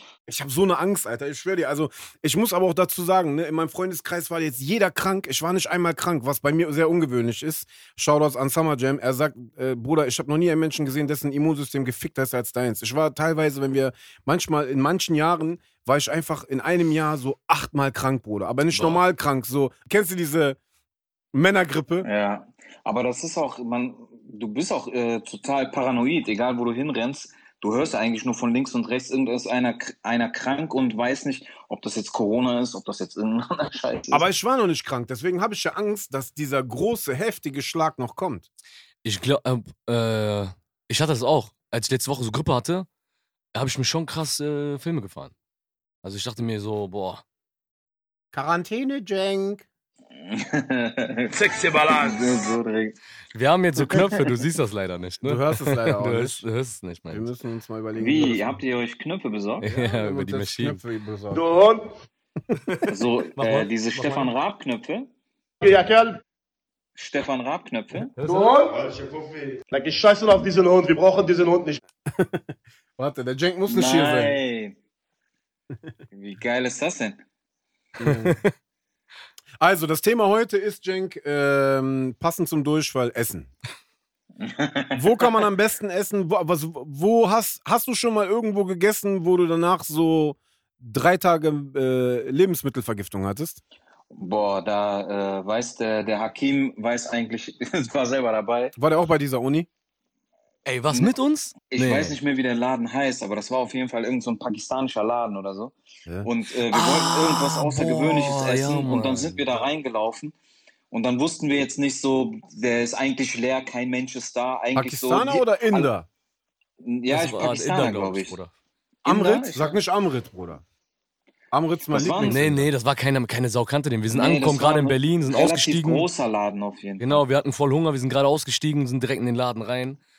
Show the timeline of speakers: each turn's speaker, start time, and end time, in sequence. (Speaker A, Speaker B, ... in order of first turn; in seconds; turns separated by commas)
Speaker A: 0.3-20.6, Speaker B: 18.7-19.0, Speaker A: 21.3-22.1, Speaker C: 22.0-34.3, Speaker A: 34.1-38.5, Speaker B: 39.0-42.9, Speaker B: 43.5-45.3, Speaker B: 46.0-47.2, Speaker A: 48.3-49.6, Speaker C: 50.2-53.0, Speaker D: 51.3-52.5, Speaker B: 53.3-57.3, Speaker C: 53.9-54.2, Speaker A: 55.2-56.5, Speaker A: 57.1-58.6, Speaker C: 58.0-59.7, Speaker B: 59.6-60.8, Speaker A: 59.6-61.5, Speaker D: 61.3-61.9, Speaker B: 62.7-64.3, Speaker C: 62.9-65.1, Speaker D: 65.6-66.2, Speaker C: 67.0-68.1, Speaker B: 68.2-68.6, Speaker D: 68.2-71.8, Speaker A: 72.1-74.4, Speaker C: 73.7-74.8, Speaker C: 76.1-77.2, Speaker A: 78.0-78.4, Speaker B: 78.0-78.5, Speaker A: 79.6-83.5, Speaker C: 84.4-85.4, Speaker A: 84.9-93.6, Speaker C: 94.1-98.8, Speaker A: 98.8-99.7, Speaker B: 100.7-102.2, Speaker C: 101.7-105.7, Speaker C: 106.2-110.3, Speaker B: 106.7-109.5, Speaker C: 110.9-115.9, Speaker A: 114.8-116.1, Speaker C: 116.8-118.4, Speaker B: 117.1-118.5, Speaker C: 119.0-119.8, Speaker A: 119.0-120.6, Speaker A: 121.5-122.7, Speaker C: 121.9-122.4, Speaker B: 122.2-126.1, Speaker C: 124.1-127.2, Speaker B: 127.0-130.0